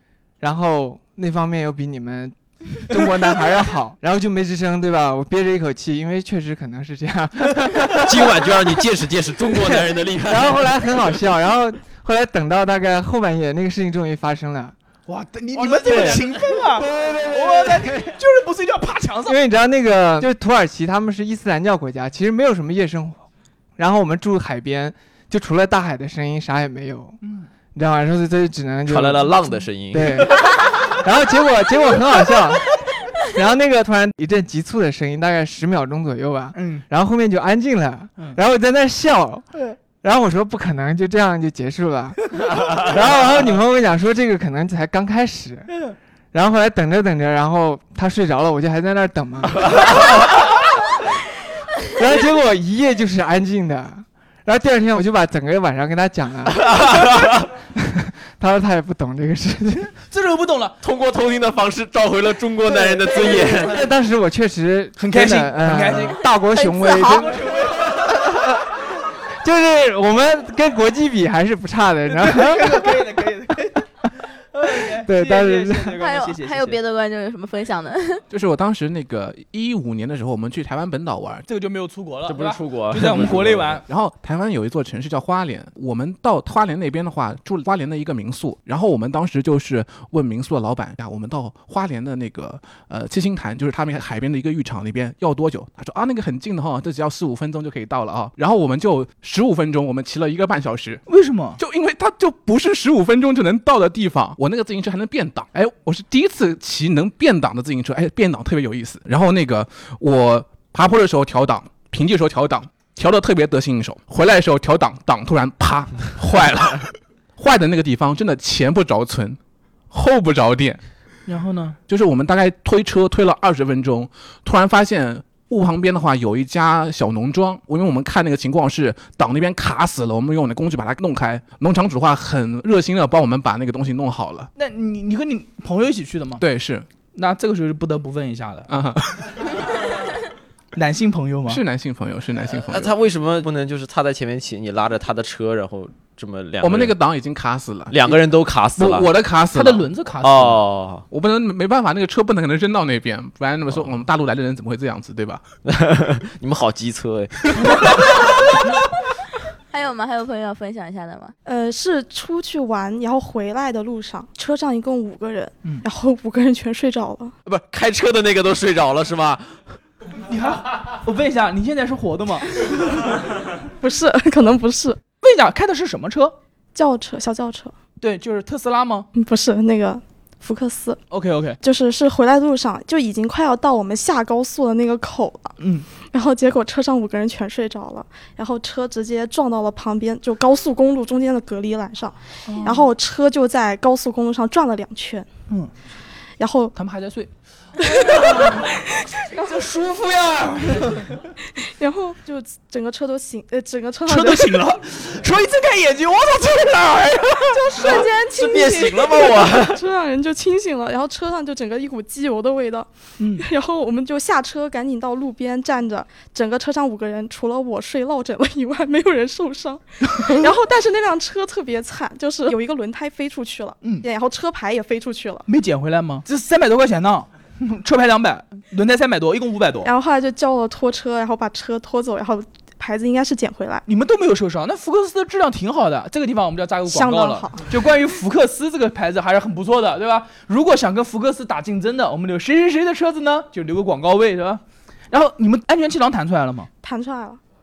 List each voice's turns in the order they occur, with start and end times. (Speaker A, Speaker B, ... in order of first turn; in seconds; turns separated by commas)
Speaker A: 0.4-8.8, Speaker B: 8.1-10.7, Speaker A: 9.6-14.8, Speaker C: 15.1-19.4, Speaker A: 15.8-16.3, Speaker B: 15.9-16.2, Speaker A: 16.8-17.2, Speaker B: 17.0-17.3, Speaker A: 19.3-23.2, Speaker A: 23.8-27.2, Speaker C: 27.2-27.5, Speaker A: 27.7-30.4, Speaker B: 28.9-30.5, Speaker A: 31.0-50.2, Speaker C: 36.5-36.9, Speaker A: 51.9-57.3, Speaker B: 56.6-57.4, Speaker A: 58.4-59.9, Speaker C: 60.1-60.8, Speaker B: 60.8-63.8, Speaker A: 63.1-67.4, Speaker C: 65.0-66.2, Speaker D: 66.5-67.4, Speaker C: 67.0-68.0, Speaker A: 69.4-73.1, Speaker C: 72.1-76.8, Speaker A: 75.0-76.0, Speaker D: 76.0-78.2, Speaker E: 78.3-81.5, Speaker C: 81.5-83.8, Speaker B: 82.3-83.8, Speaker E: 83.8-101.0, Speaker C: 101.1-101.6, Speaker E: 101.6-119.4, Speaker E: 119.9-120.8, Speaker C: 121.3-121.8, Speaker E: 121.9-134.5, Speaker C: 134.6-136.4, Speaker E: 136.4-136.9, Speaker C: 137.1-138.7, Speaker E: 138.7-139.4, Speaker C: 140.7-141.6, Speaker E: 141.5-142.9, Speaker B: 142.6-146.9, Speaker E: 146.6-148.2, Speaker B: 147.9-149.1, Speaker E: 148.8-149.9, Speaker C: 149.5-150.6, Speaker B: 150.2-151.0, Speaker E: 151.1-155.4, Speaker B: 155.7-158.2, Speaker D: 159.7-161.3, Speaker F: 161.5-167.3, Speaker B: 167.5-169.8, Speaker C: 170.2-172.7, Speaker F: 173.8-175.0, Speaker C: 175.2-176.3, Speaker F: 176.8-177.8, Speaker C: 178.0-179.1, Speaker F: 179.2-181.0, Speaker C: 181.1-181.6, Speaker F: 181.6-195.3, Speaker C: 185.6-185.9, Speaker C: 192.5-192.9, Speaker F: 196.4-196.7, Speaker C: 196.7-197.3, Speaker F: 197.8-199.5, Speaker C: 197.8-198.7, Speaker C: 199.3-201.2, Speaker F: 201.6-204.7, Speaker C: 204.1-208.1, Speaker F: 207.5-225.5, Speaker B: 207.8-209.8, Speaker C: 213.2-213.4, Speaker C: 225.5-229.9, Speaker F: 229.8-233.8, Speaker C: 233.9-246.7, Speaker F: 236.9-237.7, Speaker F: 246.8-247.4